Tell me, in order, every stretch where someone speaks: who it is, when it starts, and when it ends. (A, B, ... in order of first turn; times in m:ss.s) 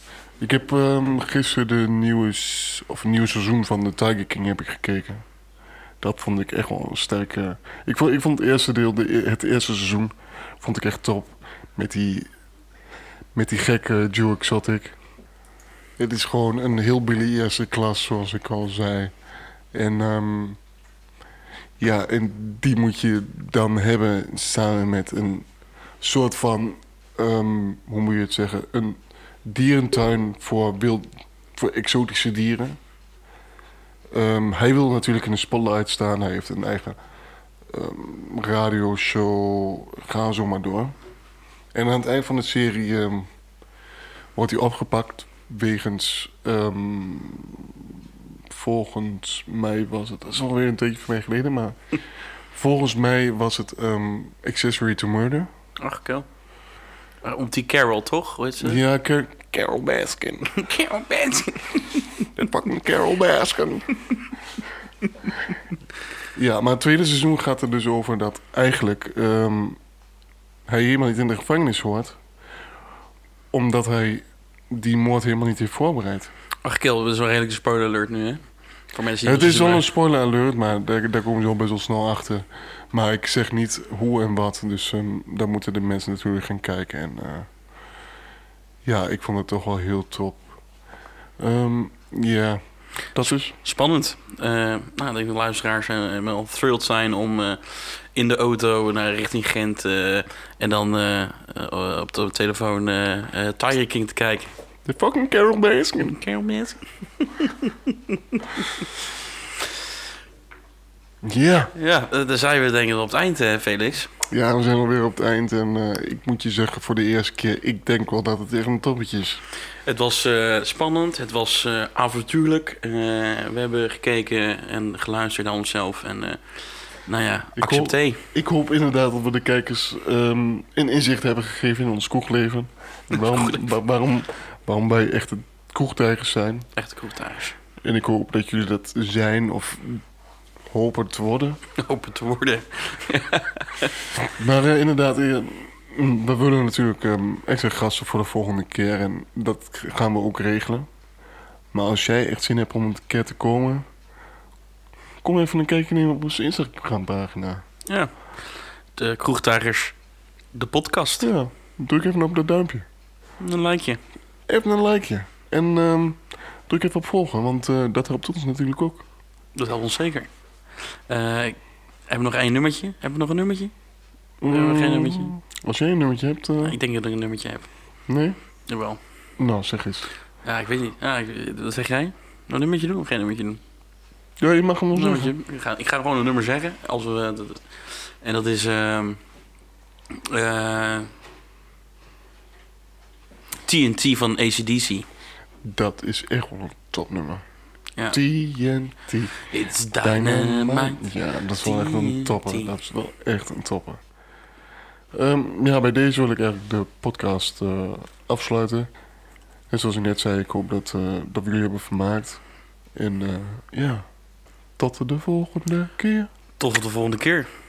0:00.4-0:05.2 A
0:06.0-0:12.3 A
0:13.3-0:15.0 A
0:16.0-0:19.1 A
0:19.7-0:20.6 A
0:21.8-0:25.5 A
0:26.0-0:32.8 A
0:34.1-0:37.0 A
0:37.7-0:40.9 A
0:41.7-0:43.3 A
0:44.3-0:51.8 A
0:52.5-0:55.5 A
0:55.8-0:56.3 B
0:57.2-0:58.8 B
0:58.6-1:00.6 A
1:00.5-1:02.2 B
1:02.3-1:04.0 A
1:06.3-1:09.8 A
1:10.7-1:12.2 A
1:13.5-1:16.3 A
1:16.6-1:19.9 B
1:19.2-1:27.5 A
1:28.8-1:30.6 A
1:31.4-1:33.5 A
1:33.2-1:44.5 B
1:44.8-1:46.2 A
1:46.0-1:48.8 B
1:51.2-1:51.7 A
1:51.7-1:54.1 B
1:54.3-1:59.4 A
1:59.8-2:08.2 B
2:07.6-2:16.7 A
2:13.1-2:13.7 B
2:16.8-2:17.6 B
2:17.8-2:20.0 A
2:20.7-2:21.6 A
2:21.8-2:23.9 B
2:24.3-2:30.9 A
2:31.7-2:33.9 A
2:35.2-2:37.6 A
2:37.8-2:39.9 B
2:40.5-2:41.3 B
2:41.2-2:42.8 A
2:43.4-2:44.0 B
2:44.5-2:49.0 A
2:49.5-2:53.7 B
2:54.4-2:56.8 A
2:54.5-2:55.3 B
2:56.6-2:57.7 B
2:58.1-2:58.4 A
2:58.7-2:59.0 B
2:59.4-3:00.1 A
3:00.4-3:03.6 B
3:04.4-3:05.3 A
3:04.9-3:09.2 B
3:10.1-3:11.1 B
3:13.6-3:15.0 B
3:15.6-3:17.4 A
3:18.1-3:19.5 A
3:19.5-3:21.1 B
3:20.0-3:24.0 A
3:21.6-3:22.7 B
3:25.1-3:28.9 A
3:29.7-3:32.4 A
3:32.9-3:34.0 A
3:34.8-3:36.3 A
3:36.6-3:37.5 B